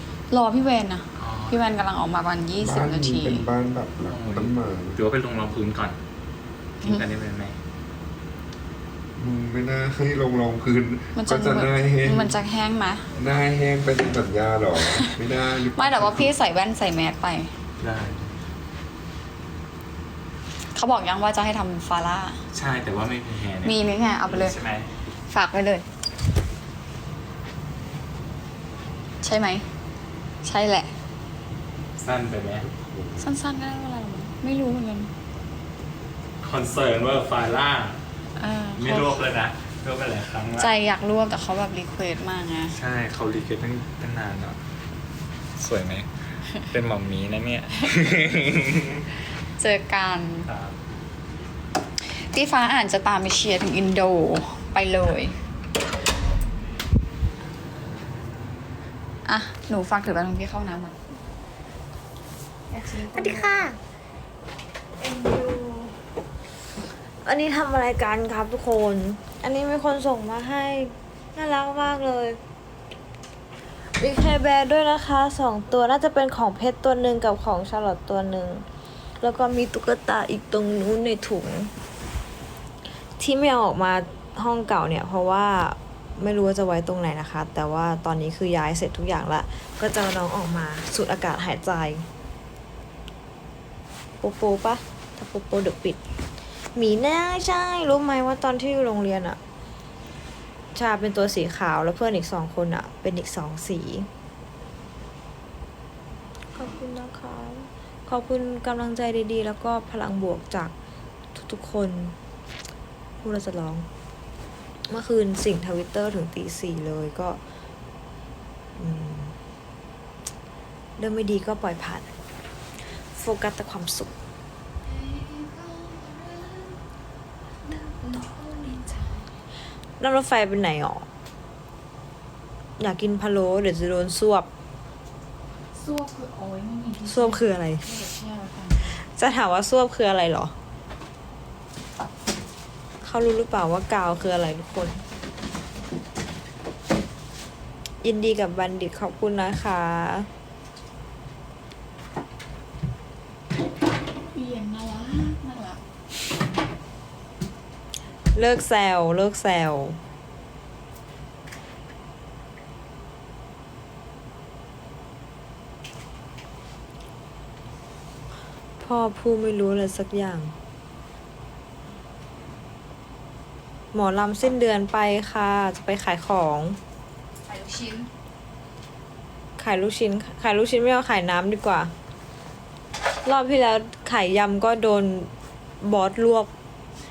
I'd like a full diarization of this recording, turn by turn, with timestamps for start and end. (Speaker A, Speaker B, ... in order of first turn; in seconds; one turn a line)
Speaker A: 0.3-3.5
Speaker B: 1.2-1.6
Speaker C: 2.6-5.0
Speaker B: 4.0-6.0
Speaker B: 6.8-7.6
Speaker C: 9.2-12.4
Speaker A: 11.2-13.1
Speaker C: 13.2-16.4
Speaker A: 14.9-15.2
Speaker A: 15.8-17.5
Speaker B: 17.8-18.3
Speaker A: 20.7-22.4
Speaker B: 22.5-24.9
Speaker A: 23.6-24.6
Speaker A: 25.3-25.9
Speaker A: 29.2-29.7
Speaker A: 30.4-30.9
Speaker B: 32.0-32.6
Speaker C: 32.7-33.2
Speaker A: 33.2-35.1
Speaker B: 36.4-38.0
Speaker A: 38.4-39.3
Speaker B: 38.8-40.7
Speaker A: 40.6-42.8
Speaker B: 42.7-44.6
Speaker B: 45.6-49.0
Speaker A: 49.6-50.5
Speaker B: 50.5-50.7
Speaker A: 52.0-55.3
Speaker A: 59.2-61.0
Speaker A: 62.7-63.7
Speaker D: 63.1-63.8
Speaker A: 65.0-66.0
Speaker D: 67.2-72.4
Speaker D: 73.9-78.7
Speaker D: 79.2-81.7
Speaker D: 83.2-92.0
Speaker D: 94.2-96.0
Speaker D: 96.7-99.4
Speaker D: 100.7-104.1
Speaker D: 106.5-110.7
Speaker D: 111.3-112.2
Speaker D: 113.2-113.9
Speaker D: 114.9-117.4
Speaker D: 118.8-119.3
Speaker D: 121.0-122.1
Speaker D: 123.1-124.1
Speaker A: 124.8-126.8
Speaker A: 127.6-129.4
Speaker D: 130.0-131.1
Speaker D: 132.8-134.5
Speaker A: 135.7-139.0
Speaker D: 137.1-137.8
Speaker D: 138.9-140.5
Speaker D: 143.0-145.0
Speaker D: 148.0-150.3
Speaker A: 154.3-155.8
Speaker D: 158.3-160.0
Speaker D: 168.8-170.5
Speaker D: 173.9-176.8
Speaker A: 177.4-178.1
Speaker D: 179.6-181.9
Speaker D: 183.2-186.5